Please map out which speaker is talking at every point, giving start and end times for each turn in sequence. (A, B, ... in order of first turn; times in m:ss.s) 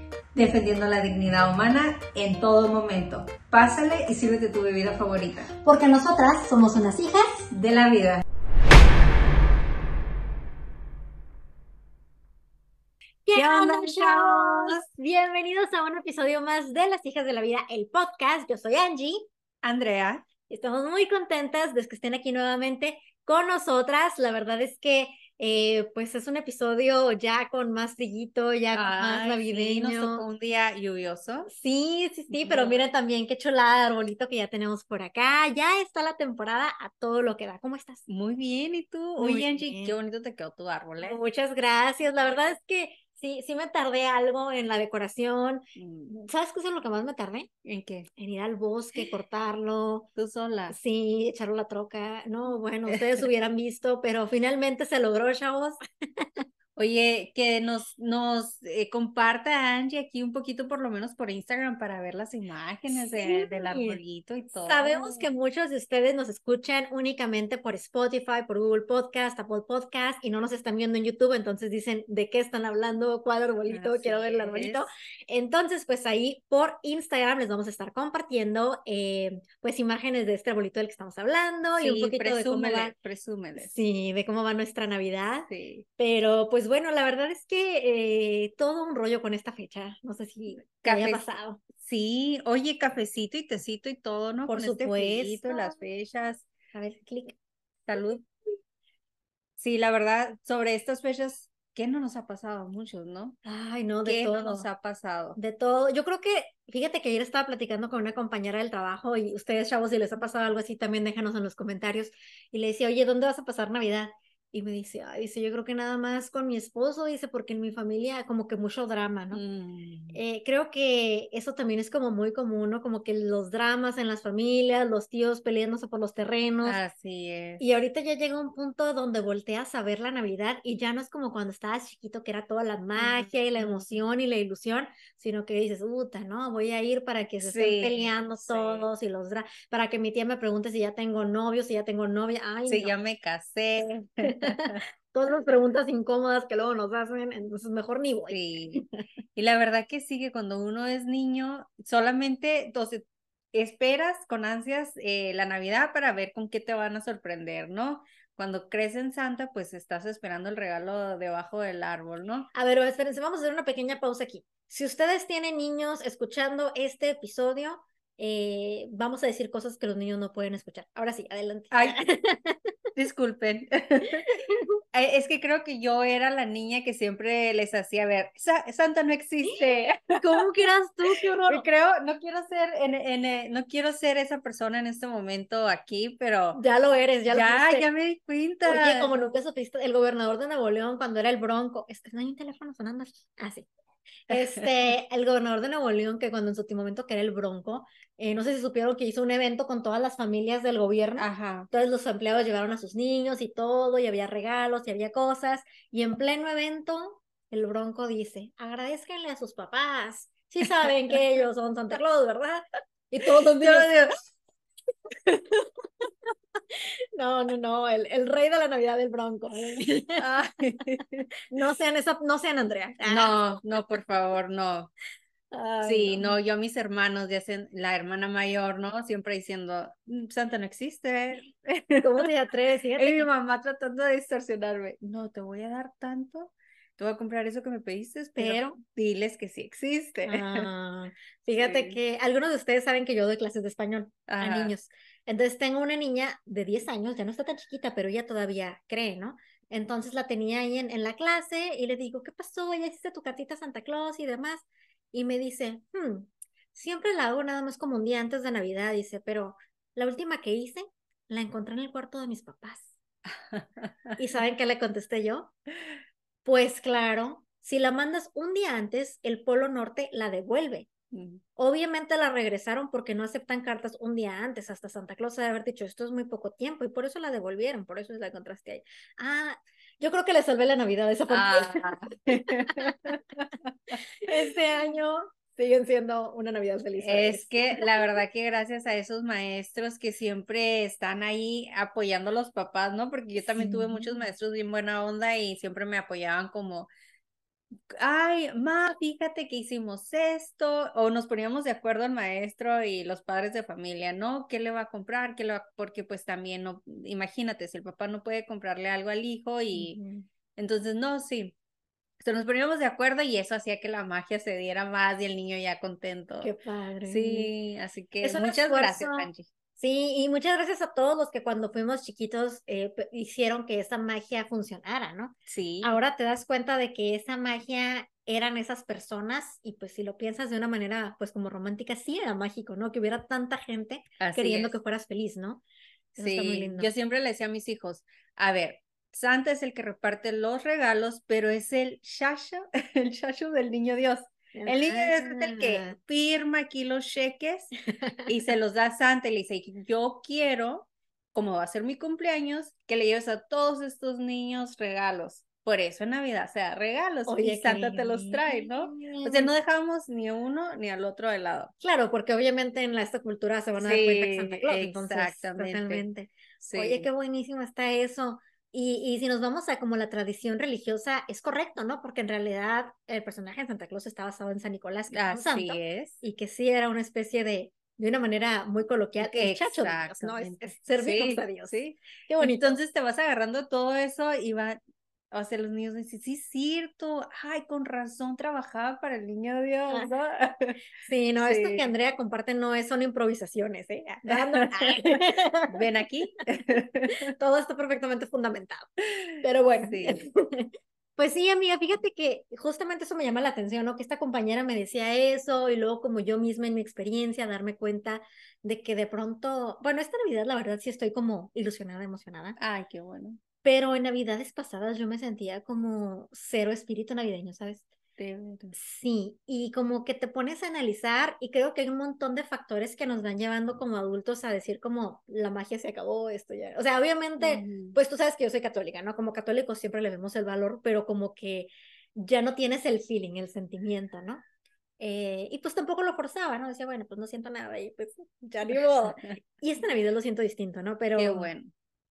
0:00.3-0:05.5 A
0:05.6-0:07.5 B
0:07.5-0:08.2 A
0:13.2-0:19.2 B
0:13.3-0:14.8 A
0:19.6-0:20.2 A
0:20.5-0:30.2 B
0:28.7-0:31.5 A
0:31.5-0:38.0 B
0:32.3-0:32.8 A
0:38.1-0:41.2 A
0:39.2-0:39.9 B
0:41.0-0:47.5 B
0:45.8-0:46.2 A
0:47.6-0:48.1 A
0:48.2-0:50.1 B
0:50.2-0:50.8 A
0:50.7-0:56.3 B
0:52.9-0:53.2 A
0:56.8-1:05.3 A
1:02.9-1:04.0 B
1:04.6-1:22.9 B
1:13.7-1:14.9 A
1:21.8-1:23.7 A
1:23.6-1:31.6 B
1:25.5-1:25.8 A
1:30.8-1:31.2 A
1:31.8-1:36.5 A
1:34.5-1:35.8 B
1:36.7-1:37.4 B
1:37.8-1:38.2 A
1:39.6-1:43.4 A
1:43.4-1:44.7 B
1:44.0-1:45.4 A
1:45.4-1:59.4 B
1:59.3-2:00.2 A
2:00.1-2:06.8 B
2:06.6-2:07.6 A
2:07.6-2:22.9 B
2:13.0-2:14.0 A
2:17.4-2:18.9 A
2:22.7-2:24.8 A
2:24.2-2:28.9 B
2:28.3-2:28.8 A
2:29.3-2:42.5 A
2:42.5-2:52.6 B
2:51.7-2:52.0 A
2:53.0-2:54.3 A
2:54.9-3:00.4 A
3:00.2-3:01.6 B
3:01.4-3:06.6 A
3:06.5-3:07.9 B
3:07.3-3:09.1 A
3:08.6-3:13.7 B
3:14.3-3:33.9 B
3:14.3-3:14.6 A
3:21.2-3:21.7 A
3:30.8-3:31.1 A
3:33.2-3:34.1 A
3:35.4-3:35.7 B
3:36.7-3:40.2 B
3:40.2-3:41.2 A
3:41.5-3:43.4 B
3:43.0-3:44.9 A
3:45.5-3:46.4 B
3:45.8-3:52.2 A
3:52.0-3:53.3 B
3:53.0-4:00.7 A
3:58.4-3:58.8 B
4:00.2-4:23.0 B
4:01.6-4:02.0 A
4:04.3-4:04.7 A
4:23.4-4:24.2 A
4:24.2-4:25.5 B
4:26.4-4:30.9 B
4:31.1-4:31.4 A
4:31.6-4:41.9 B
4:41.3-4:44.4 A
4:42.5-4:42.9 B
4:43.9-4:48.0 B
4:47.0-4:56.9 A
4:53.4-4:54.2 B
4:57.9-5:10.0 A
5:09.7-5:10.2 B
5:10.6-5:11.6 A
5:12.2-5:16.5 A
5:16.4-5:17.5 B
5:17.0-5:19.5 A
5:18.2-5:35.6 B
5:25.5-5:25.9 A
5:34.2-5:34.8 A
5:36.1-5:36.9 B
5:36.2-5:47.7 A
5:44.5-5:46.0 B
5:48.0-5:48.3 B
5:48.3-6:01.7 A
5:57.2-5:59.5 B
6:01.8-6:22.8 B
6:03.8-6:06.0 A
6:06.6-6:07.1 A
6:15.1-6:16.2 A
6:19.2-6:24.8 A
6:25.3-6:30.8 A
6:31.0-6:35.8 B
6:31.4-6:31.9 A
6:34.3-6:34.9 A
6:35.7-6:37.2 A
6:37.1-6:38.9 B
6:39.4-6:52.6 B
6:39.8-6:40.2 A
6:52.6-6:53.4 A
6:53.6-6:57.9 B
6:58.2-6:58.7 A
6:58.7-7:14.4 B
7:07.4-7:08.0 A
7:15.0-7:21.5 B
7:18.7-7:19.3 A
7:21.2-7:21.7 A